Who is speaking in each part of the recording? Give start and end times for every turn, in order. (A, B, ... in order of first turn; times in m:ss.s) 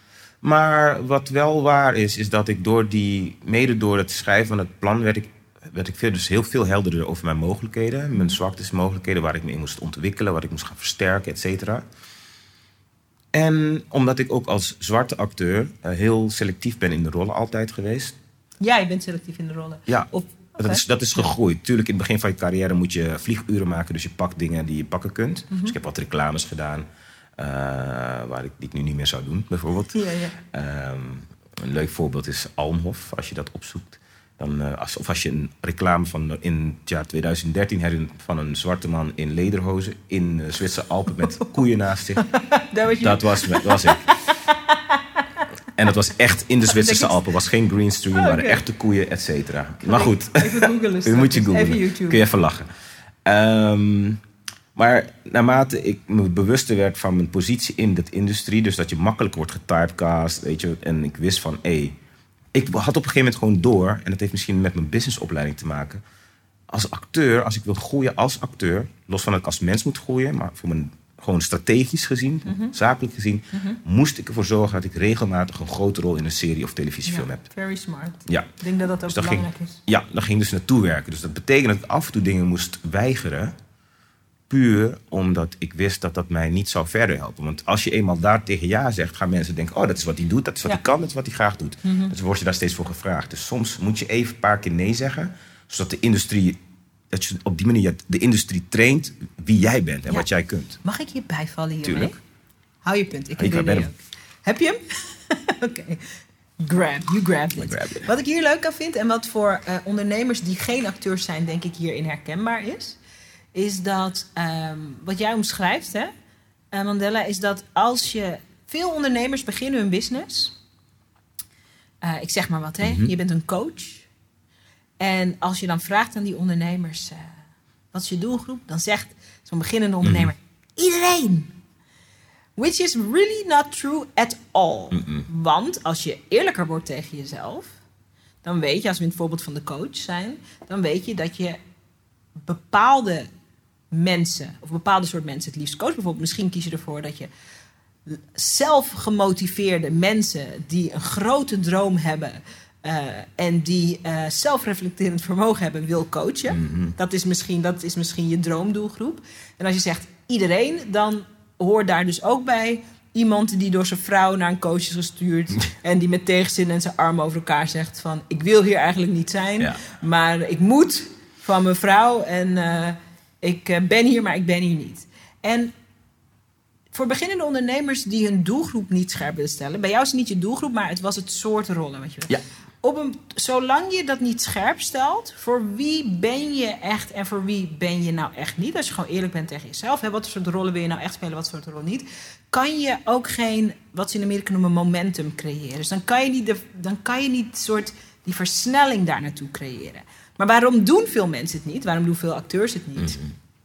0:00.4-0:11.8 A
0:13.3-0:18.2 A
0:18.6-0:20.8 B
0:19.9-0:26.9 A
0:27.4-0:42.2 A
0:30.0-0:30.4 B
0:42.2-0:45.4 B
0:43.0-0:44.0 A
0:45.8-0:52.7 A
0:46.6-0:47.2 B
0:48.1-0:48.6 B
0:49.8-0:52.3 B
0:53.2-0:54.2 A
0:54.8-1:02.0 A
1:02.5-1:06.0 A
1:06.7-1:17.4 A
1:12.4-1:12.7 B
1:13.5-1:13.8 B
1:17.1-1:19.8 B
1:19.1-1:23.6 A
1:24.5-1:36.6 A
1:31.8-1:32.1 B
1:37.1-1:40.8 A
1:40.8-1:42.2 B
1:41.8-1:42.2 A
1:42.8-1:46.0 B
1:43.4-1:43.9 A
1:46.6-1:53.0 B
1:47.6-1:48.1 A
1:53.5-1:56.1 B
1:56.7-2:00.6 B
2:02.0-2:04.1 B
2:02.8-2:03.1 A
2:05.0-2:07.3 B
2:07.9-2:11.5 B
2:10.0-2:10.3 A
2:12.6-2:17.8 B
2:14.9-2:15.3 A
2:18.4-2:21.6 B
2:22.4-2:23.3 B
2:23.9-2:27.3 B
2:28.1-2:55.7 B
2:36.5-2:37.0 A
2:56.9-3:23.2 B
3:23.0-3:23.3 A